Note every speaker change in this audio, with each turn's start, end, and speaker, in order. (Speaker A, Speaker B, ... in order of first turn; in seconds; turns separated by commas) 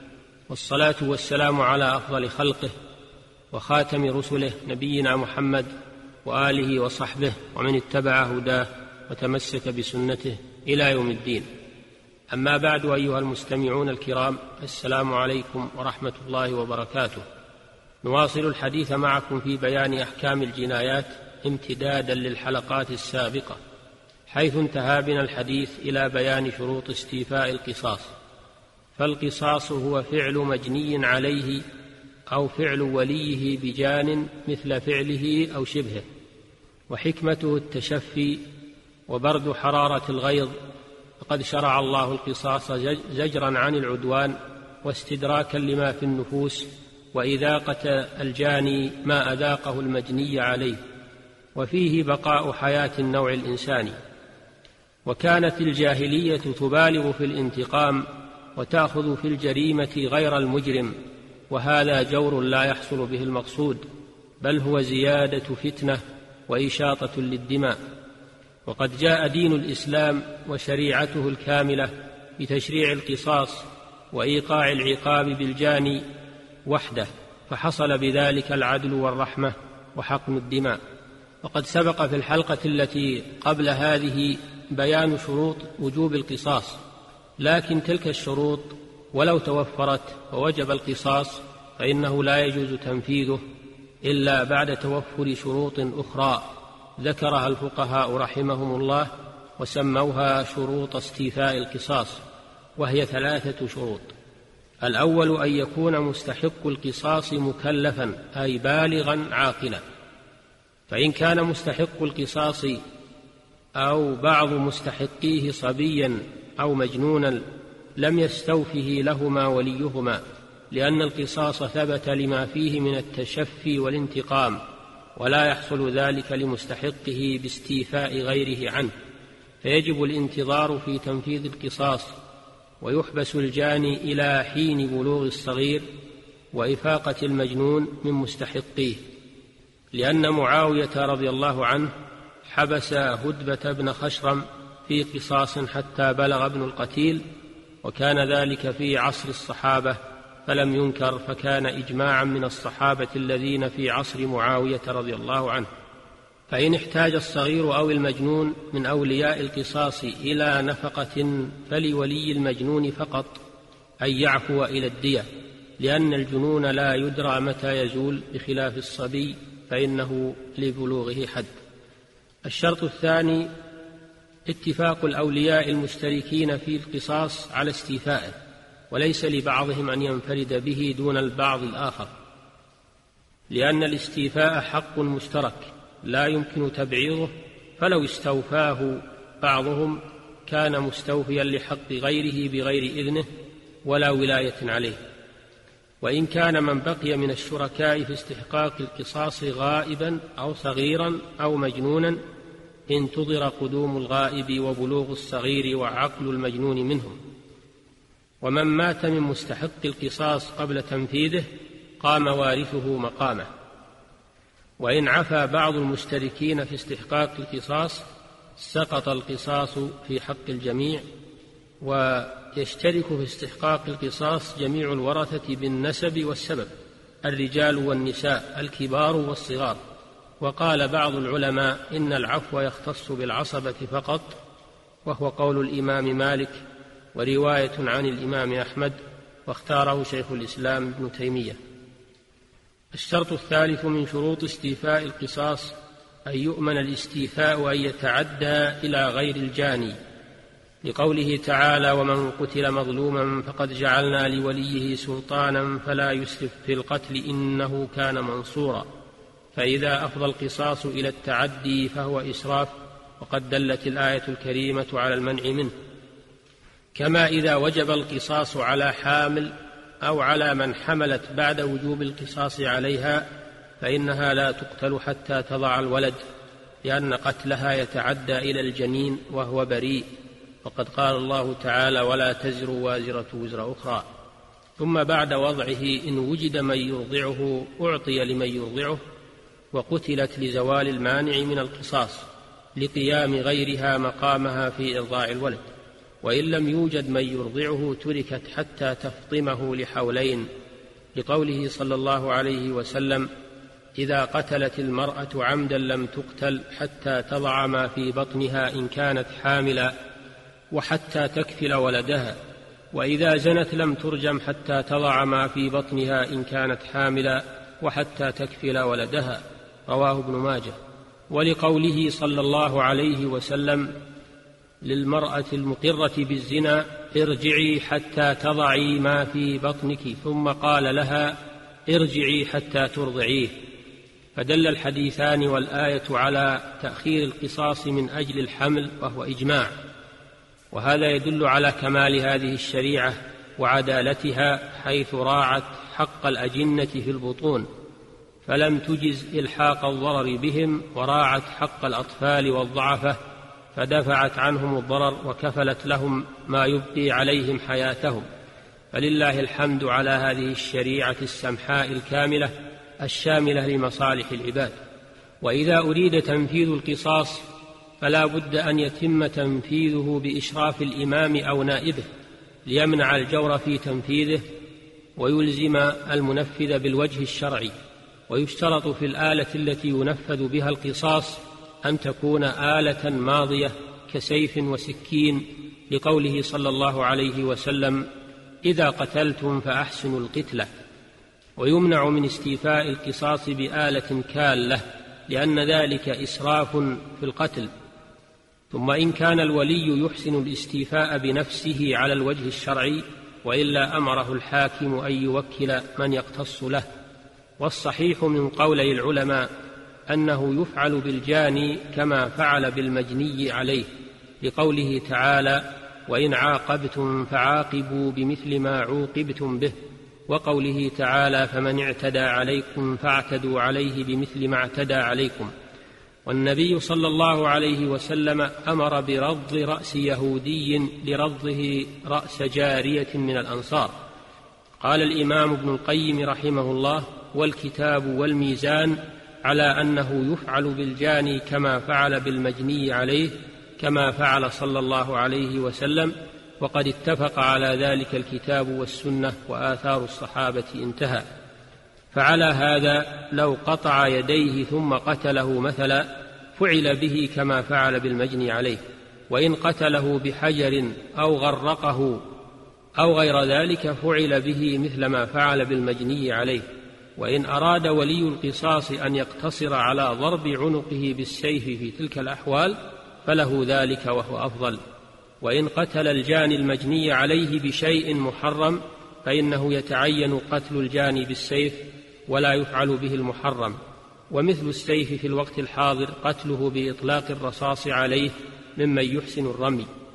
Speaker A: 0.5-2.7, Speaker A: 3.5-5.7, Speaker A: 6.2-11.5, Speaker A: 12.3-17.2, Speaker A: 18.0-23.6, Speaker A: 24.3-28.1, Speaker A: 29.0-31.6, Speaker A: 32.3-36.0, Speaker A: 36.9-38.4, Speaker A: 39.1-40.5, Speaker A: 41.2-50.8, Speaker A: 51.5-54.0, Speaker A: 55.0-60.9, Speaker A: 61.5-63.8, Speaker A: 64.4-67.8, Speaker A: 68.7-76.0, Speaker A: 76.7-80.8, Speaker A: 81.4-86.8, Speaker A: 87.4-93.4, Speaker A: 94.0-96.5, Speaker A: 97.0-102.2, Speaker A: 102.8-104.1, Speaker A: 104.8-109.8, Speaker A: 110.9-112.8, Speaker A: 113.8-117.5, Speaker A: 118.0-124.6, Speaker A: 125.2-128.9, Speaker A: 129.6-132.1, Speaker A: 132.8-135.9, Speaker A: 136.5-139.0, Speaker A: 139.9-141.9, Speaker A: 142.4-147.2, Speaker A: 147.8-155.7, Speaker A: 156.5-163.4, Speaker A: 164.0-165.3, Speaker A: 165.8-171.5, Speaker A: 172.4-173.5, Speaker A: 174.5-178.3, Speaker A: 178.9-182.1, Speaker A: 183.5-193.2, Speaker A: 193.8-195.0, Speaker A: 196.0-202.2, Speaker A: 202.9-207.2, Speaker A: 208.4-211.5, Speaker A: 212.0-213.5, Speaker A: 214.8-218.0, Speaker A: 218.6-221.0, Speaker A: 221.8-226.7, Speaker A: 227.2-229.8, Speaker A: 230.4-234.4, Speaker A: 235.1-236.6, Speaker A: 237.2-241.6, Speaker A: 242.9-245.8, Speaker A: 246.2-249.9, Speaker A: 250.8-258.9, Speaker A: 259.6-265.7, Speaker A: 266.9-273.2, Speaker A: 273.8-276.2, Speaker A: 276.8-280.1, Speaker A: 280.6-284.1, Speaker A: 284.8-289.0, Speaker A: 289.7-295.6, Speaker A: 296.2-300.5, Speaker A: 301.1-303.3, Speaker A: 304.0-309.9, Speaker A: 310.7-312.4, Speaker A: 312.9-320.8, Speaker A: 321.3-323.9, Speaker A: 324.8-333.6, Speaker A: 334.4-339.7, Speaker A: 340.7-347.7, Speaker A: 348.4-353.2, Speaker A: 353.7-358.2, Speaker A: 358.9-364.8, Speaker A: 365.4-367.4, Speaker A: 368.0-372.1, Speaker A: 372.7-374.4, Speaker A: 375.2-377.7, Speaker A: 378.3-388.1, Speaker A: 388.6-390.7, Speaker A: 391.6-397.7, Speaker A: 398.7-406.9, Speaker A: 407.6-409.5, Speaker A: 410.1-413.9, Speaker A: 414.4-419.7, Speaker A: 420.3-425.5, Speaker A: 426.2-433.9, Speaker A: 434.8-451.2, Speaker A: 452.1-462.2, Speaker A: 463.0-466.6, Speaker A: 467.2-474.8, Speaker A: 475.4-483.8, Speaker A: 484.3-489.9